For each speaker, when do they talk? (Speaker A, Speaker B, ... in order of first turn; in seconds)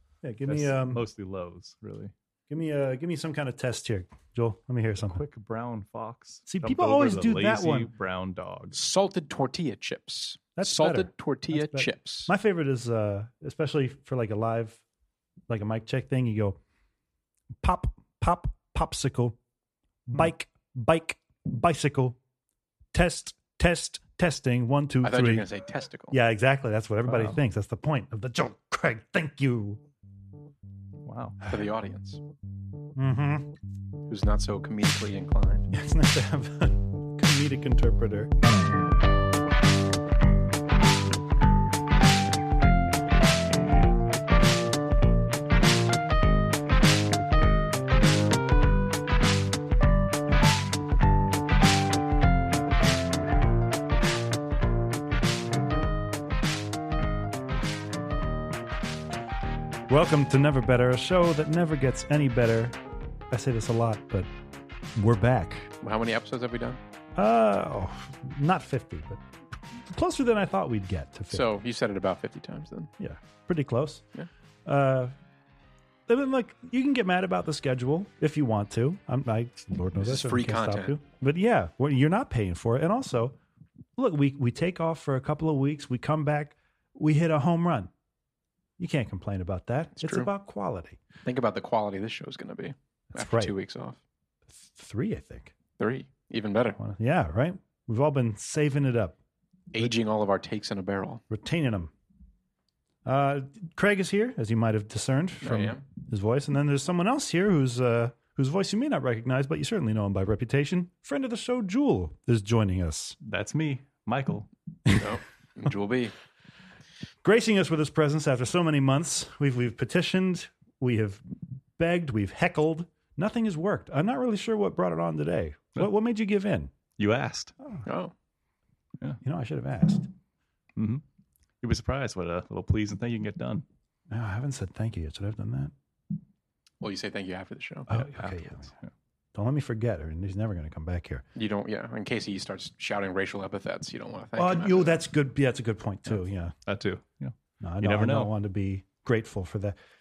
Speaker A: 0.2-1.0, 2.5-5.2, 6.5-7.9, 10.6-14.8, 15.5-16.6, 17.6-19.4, 20.1-22.2, 22.9-25.5, 26.1-29.8, 33.0-33.5, 35.7-38.3, 59.9-62.8, 63.3-64.3, 65.0-65.7, 67.2-69.2, 69.9-71.5, 73.0-74.0, 74.7-75.1, 76.1-83.4, 84.0-87.9, 88.8-91.0, 93.2-93.5, 94.7-95.5, 96.8-99.2, 101.3-101.9, 103.0-113.2, 117.2-121.2, 121.8-126.7, 129.2-130.1, 134.1-135.7, 137.9-138.7, 139.3-141.2, 144.4-146.6, 147.6-149.8
Speaker B: 0.5-2.1, 5.0-8.8, 27.1-27.4, 31.1-31.4, 113.2-114.5, 127.0-127.5, 130.8-131.0, 131.6-133.7, 138.2-138.9, 146.1-148.3
Speaker C: 8.7-12.3, 25.0-26.2, 31.5-32.2, 34.1-35.7, 65.8-66.8, 71.3-72.9, 80.0-81.0, 90.0-90.3, 91.2-94.0, 95.8-96.8, 99.7-101.2, 105.4-105.8, 114.9-116.1, 127.8-128.1, 136.8-138.0, 141.4-145.0